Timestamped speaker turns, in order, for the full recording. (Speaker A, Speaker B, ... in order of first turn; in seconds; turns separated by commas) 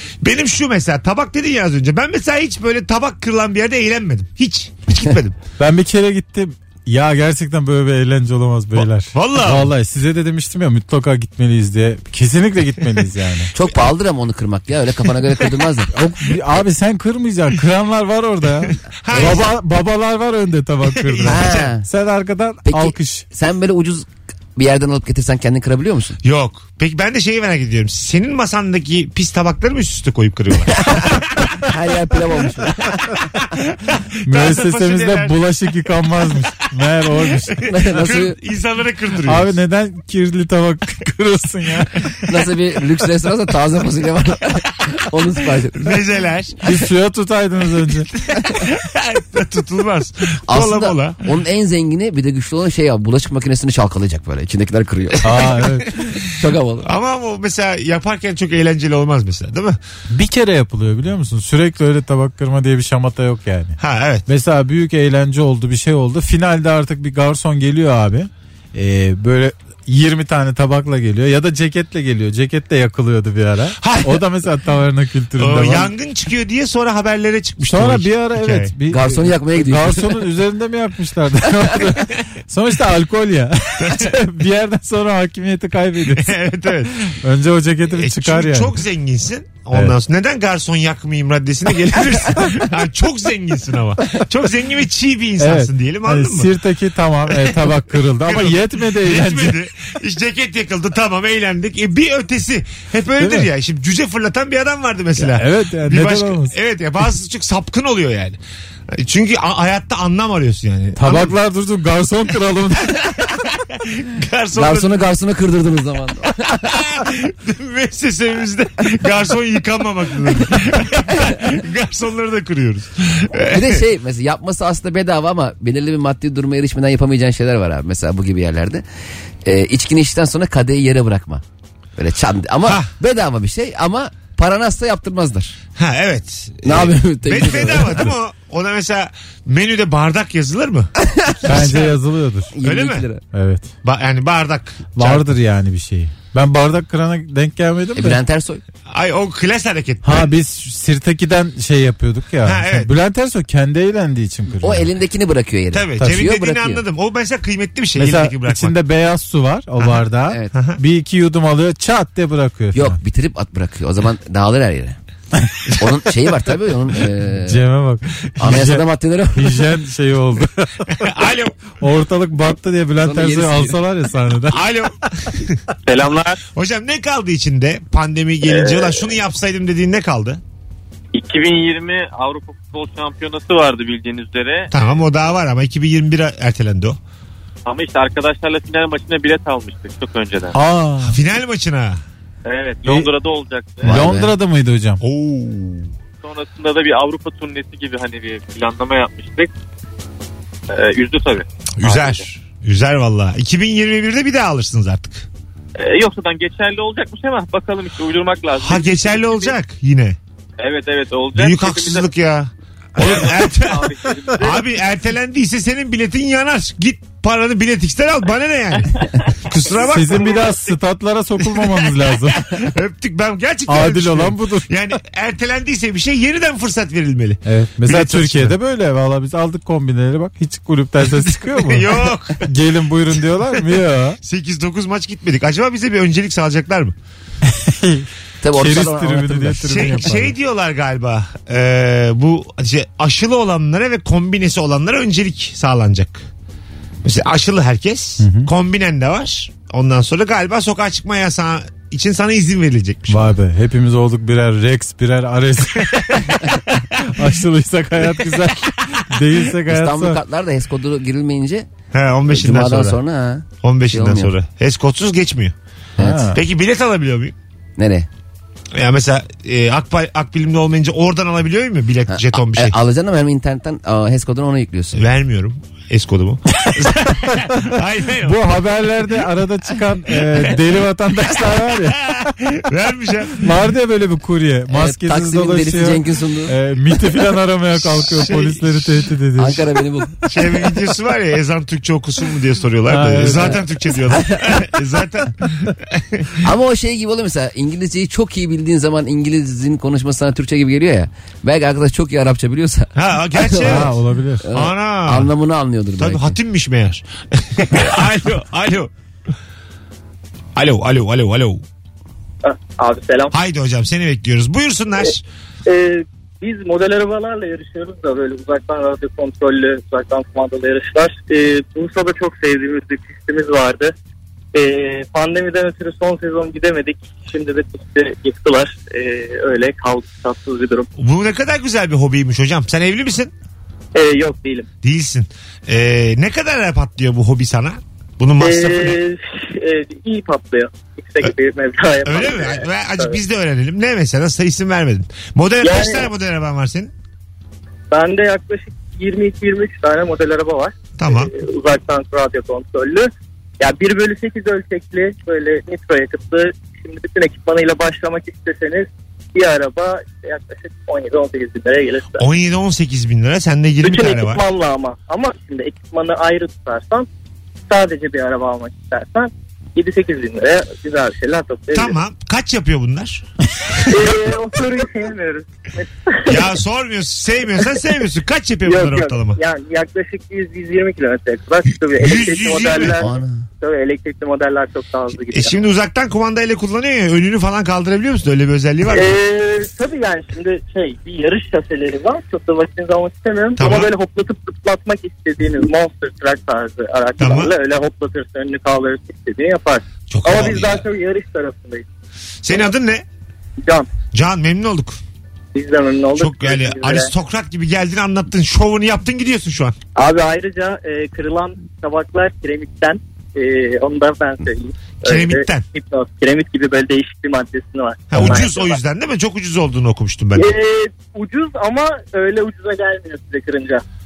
Speaker A: 0.2-5.4, Speaker B: 5.6-13.5, Speaker A: 8.8-9.7, Speaker C: 13.5-15.9, Speaker B: 15.9-23.2, Speaker A: 19.0-19.5, Speaker A: 20.9-21.7, Speaker C: 21.2-21.8, Speaker C: 22.6-26.2, Speaker A: 26.2-31.4, Speaker C: 31.6-33.3, Speaker A: 33.9-35.5, Speaker B: 34.2-38.0, Speaker C: 37.6-38.4, Speaker A: 37.7-39.5, Speaker B: 39.3-42.0, Speaker C: 42.3-46.0, Speaker A: 45.8-46.6, Speaker B: 46.6-48.1, Speaker A: 48.2-51.2, Speaker C: 50.5-56.9, Speaker B: 55.2-55.9, Speaker A: 56.8-59.8, Speaker B: 60.1-75.9, Speaker A: 63.8-64.2, Speaker A: 73.8-74.2, Speaker A: 75.4-78.7, Speaker B: 77.6-86.3, Speaker C: 78.9-80.3, Speaker A: 83.8-84.2, Speaker A: 86.1-87.2, Speaker B: 87.2-88.8, Speaker A: 87.9-96.5, Speaker B: 95.4-99.5, Speaker A: 97.3-108.4, Speaker B: 103.2-103.5, Speaker B: 105.2-106.5, Speaker A: 108.9-111.3, Speaker B: 111.0-113.0, Speaker A: 113.5-115.0, Speaker C: 114.5-116.8, Speaker A: 116.5-123.8, Speaker C: 123.4-128.8, Speaker C: 129.4-131.4, Speaker C: 132.0-135.6, Speaker A: 132.7-132.9, Speaker A: 135.8-140.9, Speaker C: 136.6-138.1, Speaker C: 141.0-141.9, Speaker B: 141.4-142.5, Speaker A: 141.5-141.8, Speaker C: 142.5-143.2, Speaker A: 142.6-143.0, Speaker B: 143.3-143.7, Speaker A: 143.8-145.3, Speaker B: 145.0-148.2, Speaker C: 148.0-148.6, Speaker A: 148.9-150.3, Speaker B: 150.0-154.9, Speaker A: 152.4-152.9, Speaker C: 154.6-156.8, Speaker A: 155.7-158.8, Speaker B: 158.0-163.0, Speaker A: 160.5-160.8, Speaker C: 162.7-165.0, Speaker B: 165.4-165.7, Speaker C: 165.8-167.6, Speaker B: 167.3-171.1, Speaker C: 168.4-169.6, Speaker A: 171.0-171.6, Speaker B: 171.8-174.6, Speaker C: 173.0-173.8, Speaker A: 174.5-175.6, Speaker D: 175.8-176.4, Speaker A: 176.5-180.4, Speaker D: 178.5-179.1, Speaker D: 181.1-185.1, Speaker A: 184.7-187.0, Speaker D: 187.7-190.5, Speaker B: 190.5-191.2, Speaker A: 191.1-192.0, Speaker D: 192.4-194.0, Speaker C: 193.8-194.3, Speaker B: 193.8-195.0, Speaker A: 195.0-195.9, Speaker D: 196.2-199.5, Speaker D: 200.7-202.2, Speaker A: 201.8-205.3, Speaker D: 205.8-209.6, Speaker A: 208.6-210.2, Speaker D: 210.6-212.1, Speaker A: 211.3-220.5, Speaker D: 213.0-214.7, Speaker B: 219.8-222.5, Speaker A: 221.6-228.6, Speaker B: 223.7-224.8, Speaker B: 227.4-231.9, Speaker A: 231.4-232.5, Speaker B: 232.4-234.2, Speaker A: 233.5-236.9, Speaker B: 237.5-240.3, Speaker C: 238.4-240.3, Speaker A: 239.7-246.3, Speaker A: 247.0-253.3, Speaker B: 248.2-248.5, Speaker B: 253.1-256.4, Speaker B: 257.0-260.2, Speaker C: 259.6-261.7, Speaker A: 261.9-263.0, Speaker C: 262.3-264.3, Speaker A: 263.6-265.5, Speaker C: 266.0-266.3, Speaker B: 266.0-266.4, Speaker A: 266.3-267.3, Speaker C: 267.8-268.1, Speaker A: 268.7-272.8, Speaker C: 272.1-275.0, Speaker A: 274.9-278.6, Speaker B: 277.3-277.6, Speaker B: 278.2-282.3, Speaker A: 282.2-283.4, Speaker B: 283.4-289.7, Speaker C: 284.7-286.5, Speaker A: 288.0-289.0, Speaker C: 289.4-290.1, Speaker A: 290.2-296.4, Speaker B: 292.9-293.6, Speaker C: 293.2-293.5, Speaker C: 294.2-294.5, Speaker C: 296.4-303.9, Speaker A: 302.9-303.9, Speaker B: 303.6-304.5, Speaker C: 304.4-306.4, Speaker A: 304.5-305.3, Speaker A: 306.0-308.9, Speaker C: 307.7-308.0, Speaker A: 310.6-311.6, Speaker E: 312.4-313.3, Speaker A: 313.3-315.2, Speaker E: 315.7-323.9, Speaker E: 324.5-330.9, Speaker A: 331.0-333.3, Speaker E: 333.9-334.7, Speaker A: 334.8-339.0, Speaker E: 338.4-343.1, Speaker A: 342.0-346.9, Speaker E: 345.6-346.0, Speaker E: 347.9-353.1, Speaker A: 351.0-351.3, Speaker E: 353.6-362.2, Speaker A: 362.2-364.4, Speaker E: 363.8-367.1, Speaker E: 367.7-371.9, Speaker A: 371.7-374.1, Speaker E: 373.9-375.4, Speaker A: 376.3-379.4, Speaker E: 378.6-383.1, Speaker A: 381.7-383.1, Speaker C: 382.9-383.4, Speaker E: 383.6-385.5, Speaker A: 385.3-389.1, Speaker E: 388.9-401.8, Speaker A: 393.6-393.9, Speaker A: 397.2-397.5, Speaker A: 400.1-400.9, Speaker A: 402.4-403.0, Speaker A: 404.1-405.0, Speaker E: 405.5-407.1, Speaker A: 406.1-409.7, Speaker E: 409.9-418.8, Speaker A: 415.0-415.6, Speaker A: 418.1-420.5, Speaker E: 420.4-423.8